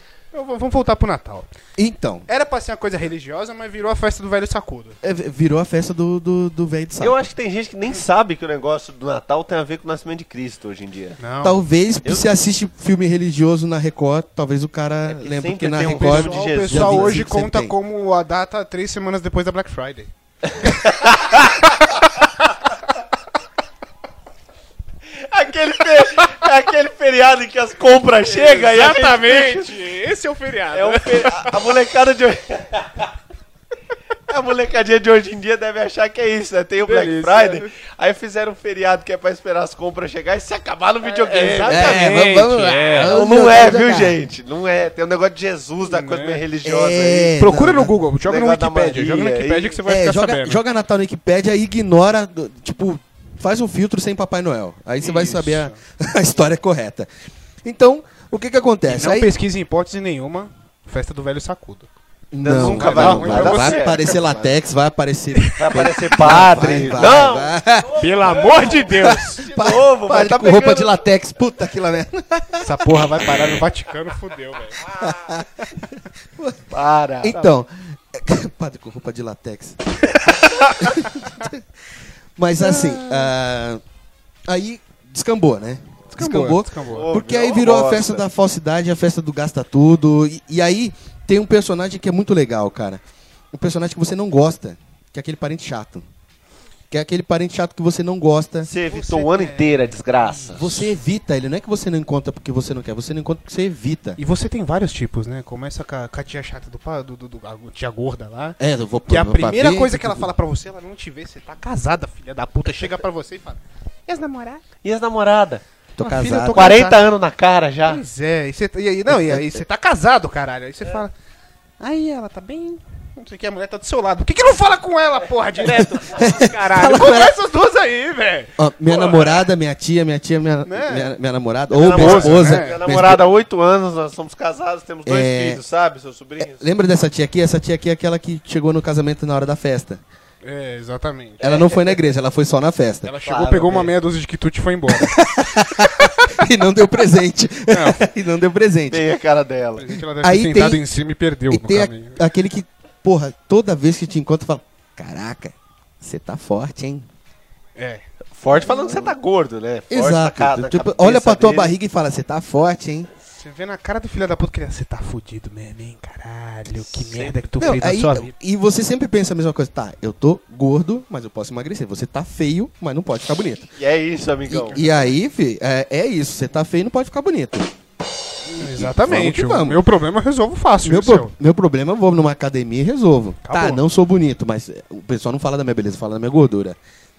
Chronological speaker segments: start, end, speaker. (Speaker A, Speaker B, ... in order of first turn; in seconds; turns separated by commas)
Speaker A: 0.3-1.5, Speaker B: 1.8-2.2, Speaker A: 2.3-5.0, Speaker B: 5.0-7.2, Speaker C: 7.0-11.2, Speaker A: 11.2-11.6, Speaker B: 11.4-17.7, Speaker C: 12.0-12.3, Speaker C: 15.1-17.2, Speaker A: 15.8-20.1, Speaker C: 20.7-21.4, Speaker A: 21.3-22.4, Speaker C: 25.1-29.7, Speaker A: 26.0-26.4, Speaker A: 28.2-31.6, Speaker C: 30.7-33.1, Speaker C: 34.3-42.1, Speaker A: 36.8-37.7, Speaker A: 41.0-43.2, Speaker B: 41.6-44.2, Speaker C: 43.0-47.4, Speaker A: 45.8-46.4, Speaker B: 46.6-47.9, Speaker A: 47.4-50.6, Speaker C: 48.2-49.8, Speaker B: 49.9-57.1, Speaker A: 55.0-55.8, Speaker B: 57.6-59.3, Speaker A: 58.9-61.9, Speaker B: 62.3-67.9, Speaker C: 62.4-64.5, Speaker A: 62.5-64.3, Speaker A: 65.4-67.1, Speaker C: 65.6-71.0, Speaker A: 68.0-69.4, Speaker B: 69.0-73.1, Speaker A: 72.6-74.8, Speaker B: 74.8-81.7, Speaker C: 76.7-77.4, Speaker A: 80.8-81.2, Speaker B: 82.3-83.8, Speaker A: 82.6-83.3, Speaker B: 84.5-96.0, Speaker A: 86.1-87.1, Speaker C: 86.9-88.2, Speaker B: 96.9-98.7, Speaker C: 98.7-100.9, Speaker A: 98.9-100.8, Speaker B: 100.5-104.2, Speaker A: 104.2-114.6, Speaker B: 108.6-110.3, Speaker C: 114.8-115.6, Speaker B: 116.0-116.7, Speaker A: 116.0-117.0, Speaker C: 116.5-118.0, Speaker A: 117.8-121.1, Speaker B: 119.1-119.5, Speaker A: 121.8-129.4, Speaker B: 126.0-127.4, Speaker B: 128.6-133.2, Speaker A: 130.6-131.1, Speaker C: 131.7-136.7, Speaker A: 131.8-132.8, Speaker B: 135.1-135.6, Speaker B: 136.4-140.0, Speaker A: 140.4-141.5, Speaker B: 141.4-143.1, Speaker C: 141.4-141.7, Speaker A: 143.0-146.4, Speaker C: 143.2-143.9, Speaker B: 144.9-149.0, Speaker A: 147.7-148.1, Speaker C: 148.9-149.9, Speaker A: 149.8-152.2, Speaker B: 150.2-150.8, Speaker B: 151.5-157.1, Speaker A: 157.8-158.1, Speaker C: 158.4-161.7, Speaker B: 159.9-163.1, Speaker A: 163.3-168.3, Speaker C: 166.9-167.4, Speaker B: 167.6-173.7, Speaker C: 173.8-174.8, Speaker B: 174.5-177.7, Speaker A: 174.7-175.0, Speaker A: 178.5-181.3, Speaker B: 178.6-179.8, Speaker B: 180.8-186.8, Speaker A: 183.4-183.8